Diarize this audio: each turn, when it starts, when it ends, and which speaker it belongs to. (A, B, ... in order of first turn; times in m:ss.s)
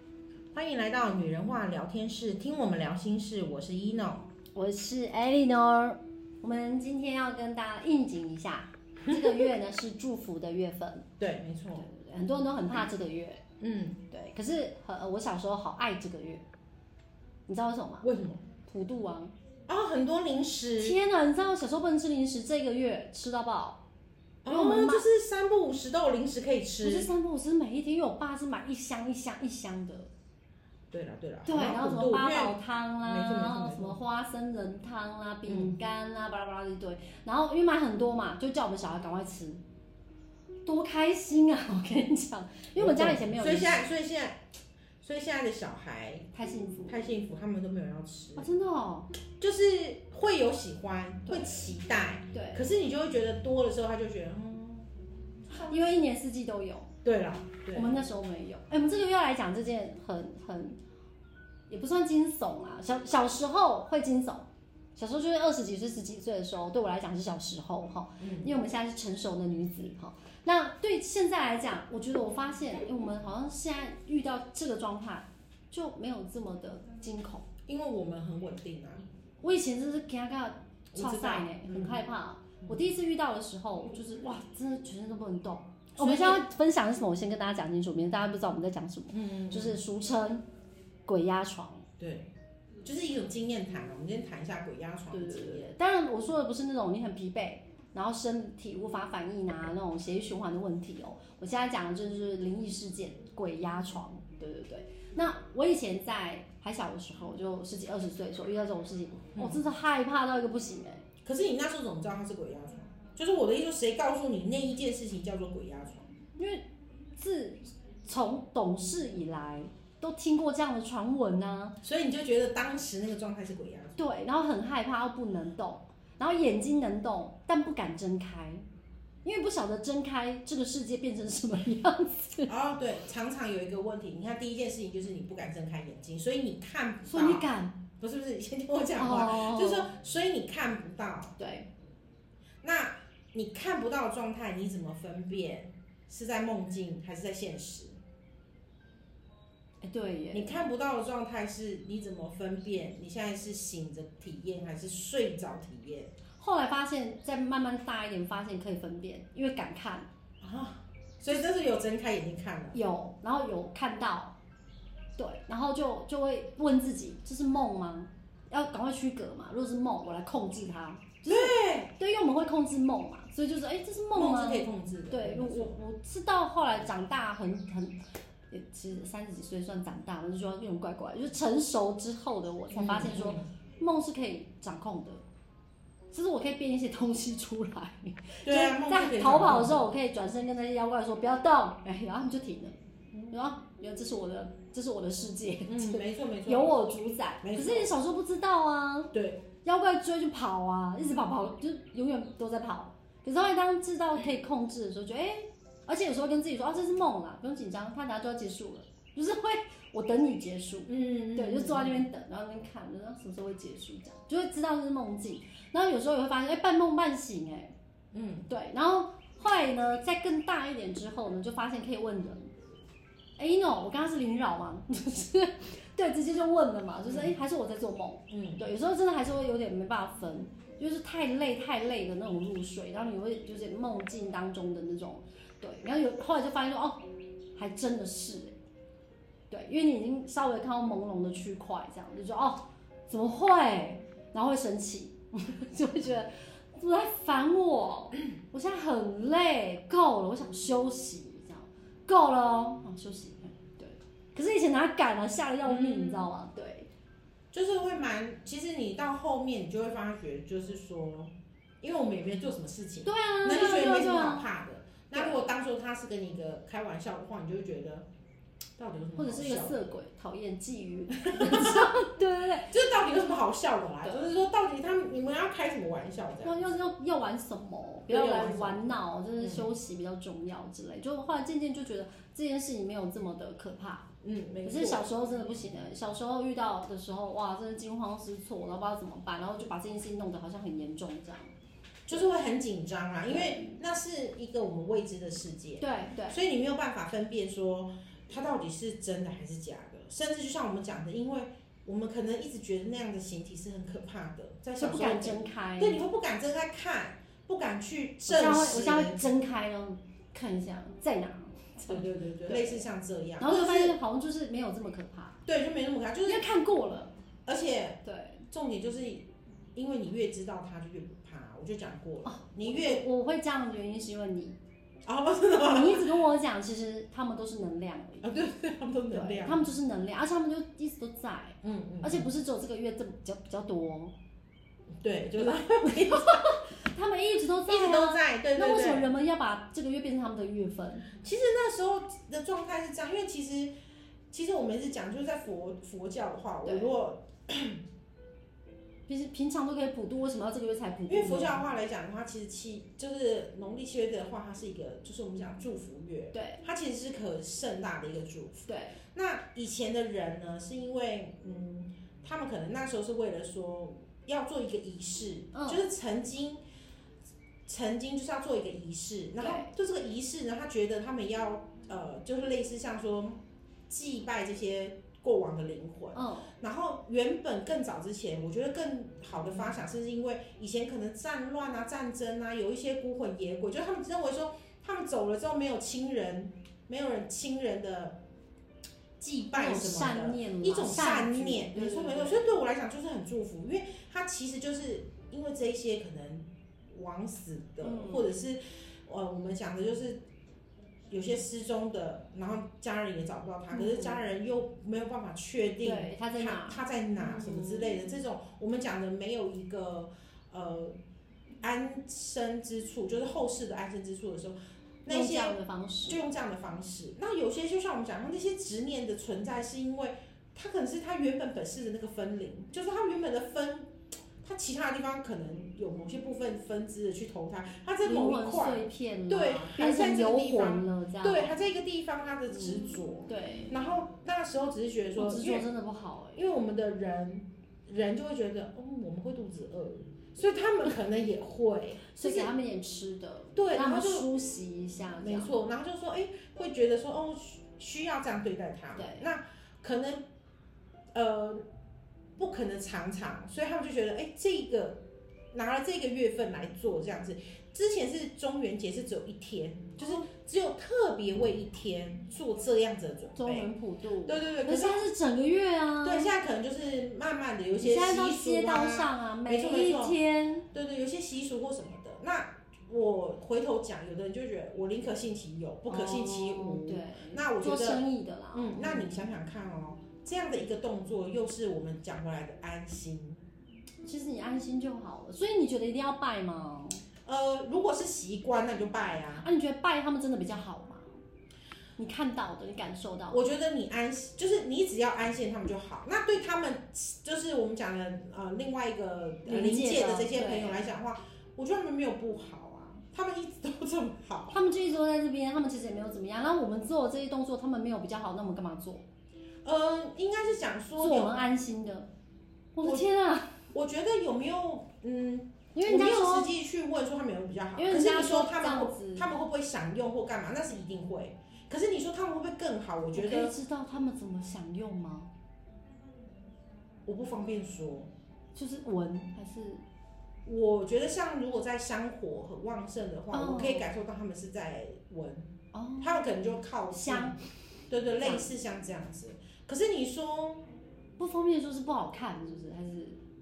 0:00.5-0:04.3 A
0:04.5-0:11.1 B
0:09.0-0:09.4 A
0:11.2-0:11.8 A
0:11.8-0:13.4 B
0:13.6-0:14.0 A
0:14.1-0:16.4 B
0:17.5-0:18.1 B
0:18.0-0:18.4 A
0:18.6-0:19.3 B
0:19.7-0:21.0 A
0:20.8-0:23.8 B
0:24.4-0:27.1 A
0:24.5-0:25.1 B
0:26.8-0:30.1 B
0:30.9-0:34.0 A
0:31.4-0:39.6 B
0:35.5-0:35.8 A
0:40.6-0:43.8 B
0:42.8-0:44.4 A
0:45.0-0:46.3 A
0:46.3-0:47.0 B
0:46.8-0:48.5 A
0:48.4-0:49.1 B
0:49.4-0:54.9 A
0:52.3-0:52.7 B
0:55.5-0:55.9 A
0:55.5-0:56.9 B
0:57.0-0:58.0 A
0:57.7-1:00.8 B
1:01.7-1:17.4 B
1:08.2-1:08.5 A
1:17.7-1:19.0 A
1:19.4-1:30.4 B
1:20.9-1:22.0 A
1:26.0-1:26.4 A
1:29.1-1:29.8 A
1:31.0-1:31.8 B
1:32.0-1:32.3 A
1:32.8-1:35.7 A
1:35.1-1:51.0 B
1:49.4-1:49.6 A
1:51.2-1:56.1 A
1:56.4-2:01.8 B
2:01.8-2:04.0 A
2:04.0-2:08.6 B
2:09.2-2:12.5 B
2:12.5-2:21.4 A
2:17.1-2:17.8 B
2:19.0-2:19.9 B
2:21.4-2:21.7 B
2:22.6-2:28.0 A
2:29.8-2:30.6 B
2:30.3-2:36.1 A
2:36.4-2:40.1 B
2:40.4-2:42.8 A
2:42.7-2:44.3 B
2:45.2-2:58.0 B
2:51.3-2:51.9 A
2:54.1-2:55.8 A
2:58.5-3:05.2 B
3:02.7-3:03.4 A
3:06.1-3:12.8 B
3:08.4-3:09.9 A
3:13.3-3:19.1 B
3:15.6-3:16.8 A
3:17.4-3:17.9 A
3:19.1-3:19.4 A
3:19.6-3:37.7 B
3:30.9-3:32.0 A
3:38.1-3:38.5 A
3:38.5-3:42.5 B
3:43.4-3:57.0 B
3:47.0-3:47.3 A
3:48.3-3:48.6 A
3:57.6-3:58.5 B
3:59.5-4:16.9 B
4:15.6-4:16.3 A
4:17.5-4:28.1 A
4:23.0-4:24.5 B
4:25.1-4:25.4 B
4:28.8-4:29.8 A
4:29.2-4:32.7 B
4:31.2-4:31.9 A
4:32.6-4:36.7 A
4:36.4-4:44.1 B
4:38.1-4:38.8 A
4:39.4-4:39.7 A
4:44.2-4:45.0 A
4:44.6-4:51.5 B
4:52.1-5:09.3 A
4:53.3-4:53.8 B
4:55.8-4:56.4 B
5:04.8-5:06.0 B
5:08.3-5:12.8 B
5:11.9-5:14.0 A
5:13.4-5:15.4 B
5:15.4-5:16.5 A
5:16.2-5:17.1 B
5:17.4-5:23.0 A
5:18.0-5:18.4 B
5:22.2-5:24.6 B
5:25.0-5:26.1 A
5:25.6-5:28.3 B
5:28.2-5:29.7 A
5:29.1-5:34.1 B
5:31.6-5:32.3 A
5:35.0-5:36.6 A
5:35.4-5:41.1 B
5:37.7-5:39.1 A
5:41.1-5:43.7 A
5:44.3-5:47.8 A
5:46.6-5:46.9 B
5:49.1-5:51.6 B
5:51.1-6:06.6 A
5:56.3-5:56.6 B
5:58.7-5:59.0 B
6:05.5-6:05.8 B
6:07.6-6:28.2 A
6:09.4-6:09.7 B
6:16.1-6:16.5 B
6:29.2-6:40.2 A
6:29.5-6:32.4 B
6:37.8-6:38.3 B
6:41.1-6:51.0 A
6:43.7-6:44.2 B
6:45.8-6:48.0 B
6:51.6-7:15.7 A
6:55.1-6:56.2 B
7:08.0-7:11.5 B
7:12.5-7:13.7 B
7:15.2-7:16.4 B
7:16.3-7:22.5 A
7:22.1-7:25.5 B
7:23.5-7:24.3 A
7:25.2-7:30.2 A
7:29.0-7:29.3 B
7:31.1-7:31.6 A
7:32.4-7:35.0 A
7:35.5-7:43.7 A
7:43.4-7:46.3 B
7:44.2-7:45.0 A
7:46.0-7:50.2 A
7:47.8-7:50.7 B
7:50.7-8:03.4 A
7:55.9-7:59.3 B
8:04.0-8:07.0 B
8:07.2-8:09.5 A
8:09.4-8:11.2 B
8:12.0-8:13.4 B
8:13.3-8:24.6 A
8:19.4-8:20.8 B
8:24.5-8:29.0 B
8:29.6-8:31.4 A
8:31.0-8:32.1 B
8:32.7-8:33.6 B
8:33.7-8:43.5 A
8:35.7-8:36.5 B
8:37.8-8:39.3 B
8:43.1-8:45.3 B
8:47.0-8:48.1 A
8:48.5-8:49.8 B
8:50.4-8:57.4 A
8:53.3-8:53.9 B
8:55.7-8:56.2 B
8:56.9-8:57.4 B
8:57.9-9:00.6 A
8:58.2-8:58.5 B
9:01.2-9:03.2 B